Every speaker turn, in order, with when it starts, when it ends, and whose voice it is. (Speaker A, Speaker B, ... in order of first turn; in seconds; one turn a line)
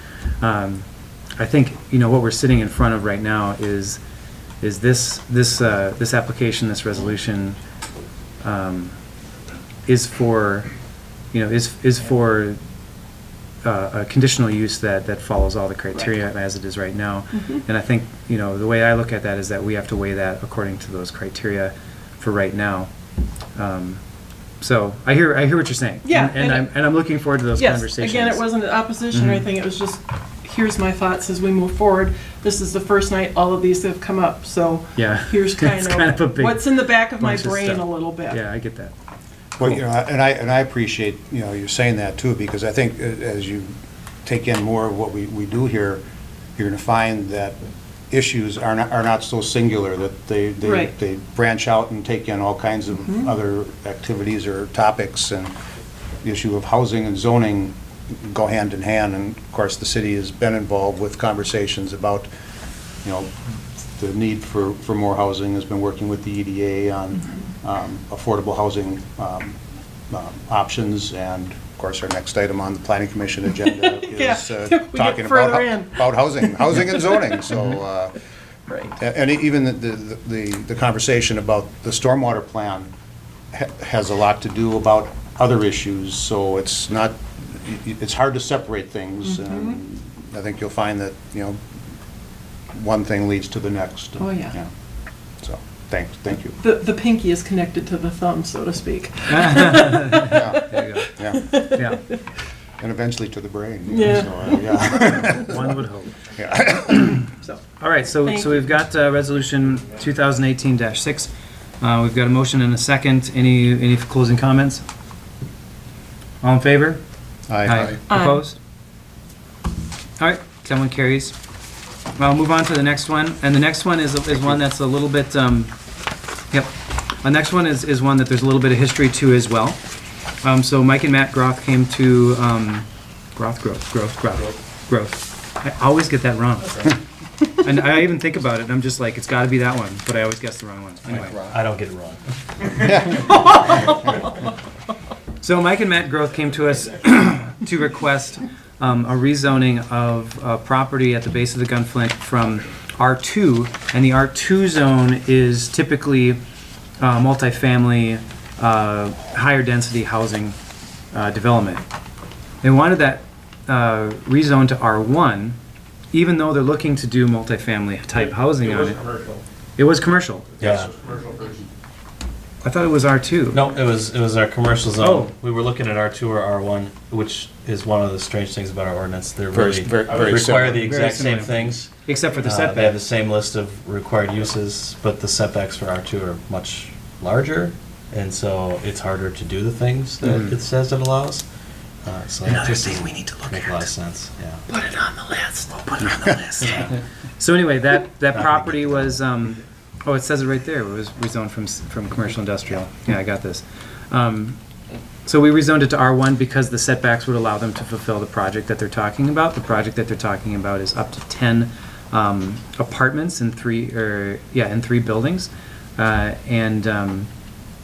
Speaker A: 0.4-0.9
Speaker A: 1.4-4.0
Speaker A: 4.6-7.6
Speaker A: 8.4-9.0
Speaker A: 9.9-10.7
Speaker A: 11.3-12.6
Speaker A: 13.6-22.9
Speaker A: 23.6-24.0
Speaker A: 24.6-28.5
Speaker B: 26.0-26.7
Speaker B: 27.5-38.4
Speaker A: 29.1-29.5
Speaker A: 35.0-38.9
Speaker C: 39.6-43.7
Speaker C: 44.2-46.0
Speaker C: 46.6-47.6
Speaker C: 48.1-55.5
Speaker B: 50.6-50.9
Speaker C: 56.2-62.3
Speaker C: 63.0-69.6
Speaker C: 70.1-78.1
Speaker B: 73.7-76.5
Speaker C: 79.0-82.9
Speaker C: 83.5-91.6
Speaker B: 89.2-89.8
Speaker C: 92.7-94.7
Speaker B: 94.2-94.5
Speaker C: 95.4-96.6
Speaker B: 96.6-100.5
Speaker A: 99.3-101.1
Speaker C: 100.1-101.6
Speaker B: 101.0-101.8
Speaker A: 101.6-102.0
Speaker C: 102.8-105.7
Speaker B: 103.9-104.8
Speaker A: 105.4-106.2
Speaker C: 106.4-107.2
Speaker A: 106.9-107.2
Speaker A: 107.8-111.3
Speaker B: 108.2-108.5
Speaker A: 111.8-114.8
Speaker A: 116.4-117.0
Speaker C: 117.5-118.0
Speaker A: 117.6-118.6
Speaker B: 118.1-118.4
Speaker A: 120.2-121.3
Speaker A: 122.2-125.7
Speaker A: 126.5-129.8
Speaker A: 130.4-137.0
Speaker A: 137.6-141.4
Speaker D: 141.1-142.2
Speaker C: 142.8-143.3
Speaker A: 145.4-156.4
Speaker A: 157.0-160.6
Speaker A: 161.1-161.8
Speaker A: 162.6-165.6
Speaker A: 166.1-169.0
Speaker C: 168.9-169.4
Speaker A: 169.8-170.6
Speaker D: 170.6-170.9
Speaker C: 170.6-171.7
Speaker A: 172.6-173.7
Speaker D: 173.5-191.4
Speaker A: 175.0-175.3
Speaker C: 179.5-180.9
Speaker A: 180.6-183.0
Speaker A: 190.2-190.5
Speaker D: 192.0-194.7
Speaker A: 192.5-193.8
Speaker B: 194.7-196.4
Speaker C: 196.0-196.4
Speaker A: 196.2-204.6
Speaker D: 196.6-197.0
Speaker D: 198.3-199.2
Speaker A: 205.2-217.3